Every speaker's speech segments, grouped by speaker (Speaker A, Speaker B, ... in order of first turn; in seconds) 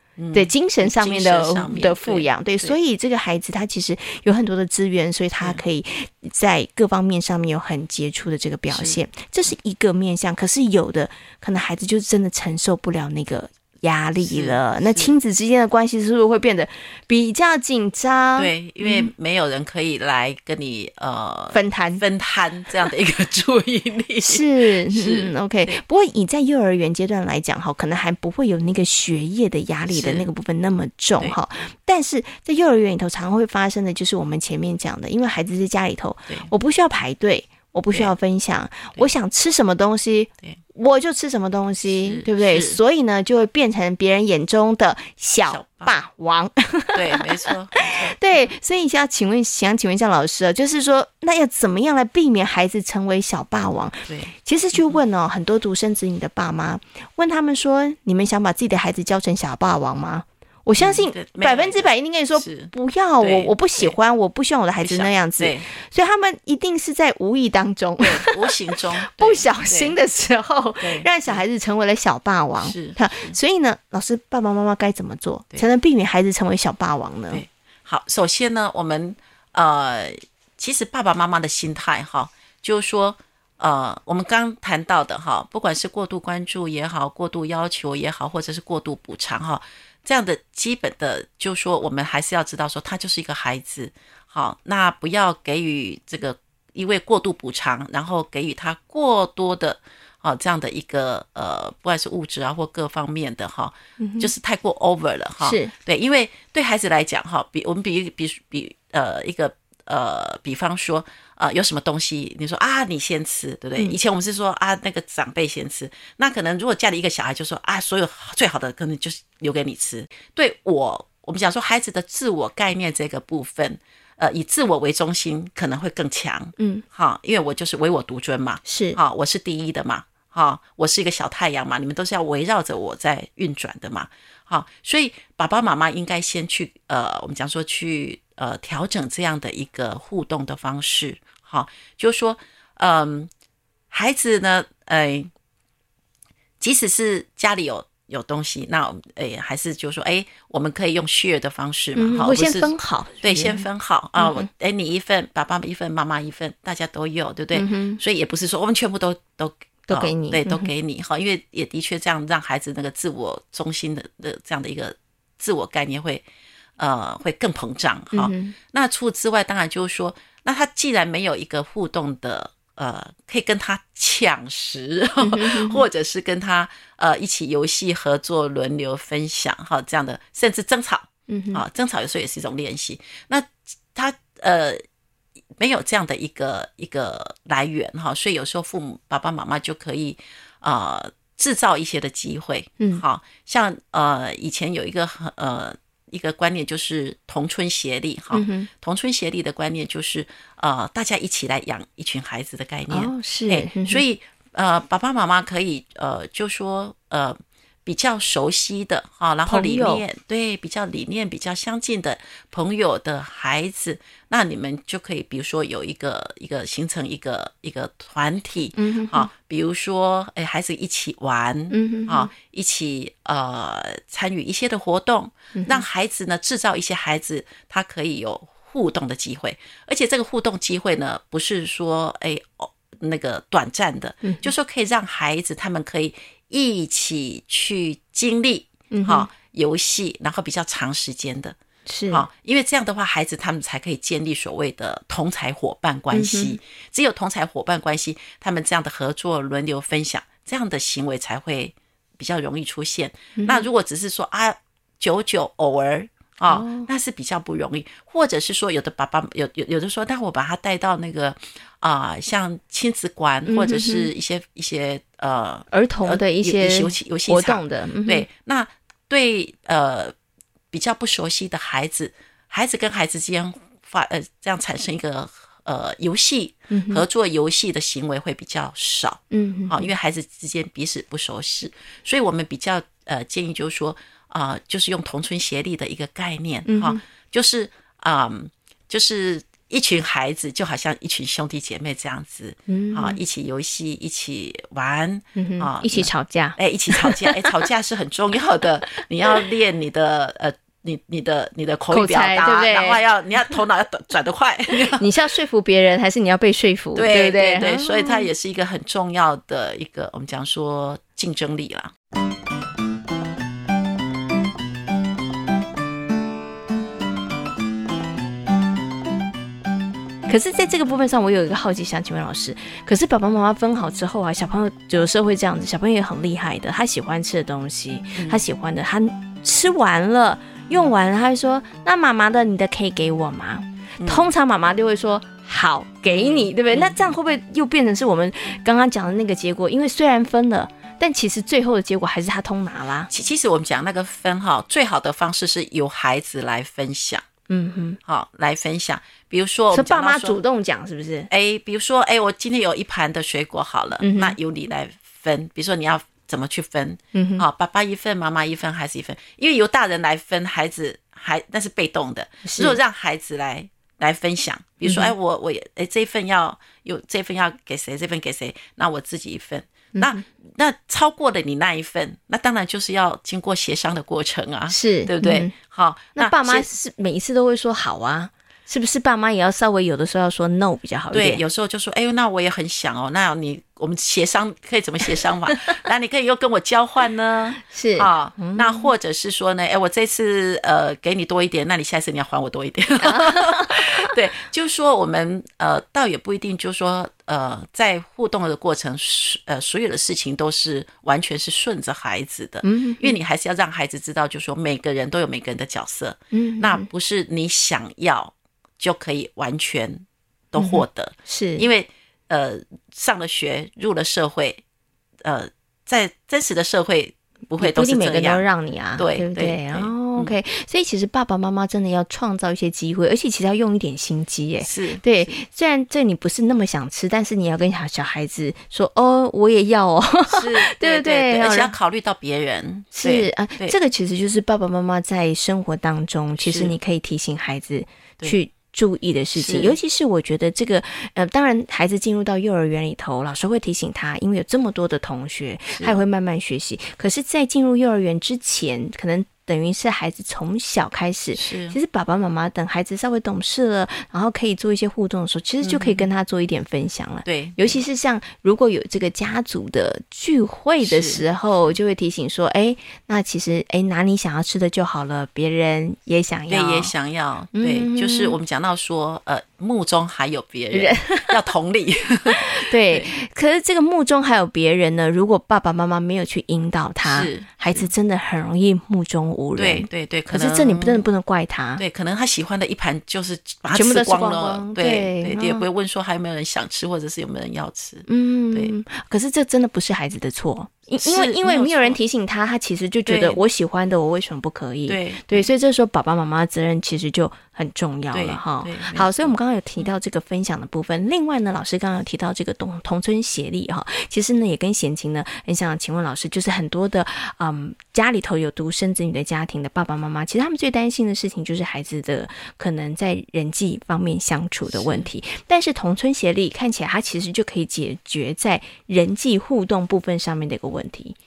Speaker A: 0.2-2.8, 8.7-9.0, 14.2-15.2, 18.4-25.8, 29.9-30.3, 41.9-42.8, 45.5-46.0, 46.9-48.5, 54.1-55.0, 60.8-64.0, 64.8-65.7, 68.0-70.0, 70.8-71.4, 72.6-73.4, 77.3-143.3, 143.9-145.3, 146.6-166.2, 166.8-184.8, 185.6-241.6, 242.1-270.1, 270.7-305.1, 306.9-311.9, 328.1-328.4, 334.0-334.3, 336.1-337.0, 343.1-347.2, 348.1-350.4, 351.3-376.7, 381.1-414.6, 415.2-418.4, 419.0-420.4, 424.6-425.3, 430.3-433.8, 436.4-436.7, 439.4-439.8, 451.4-451.8, 455.6-456.1, 457.2-457.8, 460.8-461.2, 466.5-473.1, 477.0-477.9, 479.6-481.1, 481.8-488.7, 491.0-492.0, 493.1-493.4, 494.9-495.5, 498.1-499.9, 514.7-515.1
Speaker B: 0.3-19.1, 21.5-22.0, 24.2-77.4, 104.0-104.3, 105.4-105.7, 126.6-126.8, 128.7-129.0, 152.0-153.7, 154.2-154.5, 157.5-158.0, 159.9-160.7, 168.1-168.6, 175.2-175.8, 181.3-181.6, 198.3-198.7, 202.9-204.0, 209.5-210.0, 218.8-219.3, 221.7-222.3, 225.5-225.8, 234.2-234.5, 238.9-239.3, 241.9-242.3, 246.1-246.6, 253.4-253.7, 256.5-256.9, 263.5-264.1, 265.7-268.3, 276.7-277.0, 279.3-279.9, 286.7-287.0, 292.7-293.2, 295.4-297.6, 299.0-299.4, 301.9-303.0, 304.7-308.3, 320.3-343.1, 347.5-348.0, 349.7-351.3, 354.0-354.4, 357.1-357.4, 362.4-362.8, 364.8-365.1, 369.9-370.2, 374.7-375.5, 376.2-381.4, 385.5-385.8, 387.6-388.9, 393.0-394.1, 402.6-403.2, 406.3-406.9, 410.6-411.7, 417.6-431.7, 432.9-466.9, 467.5-468.4, 470.7-471.4, 472.3-481.8, 483.7-485.6, 488.1-521.2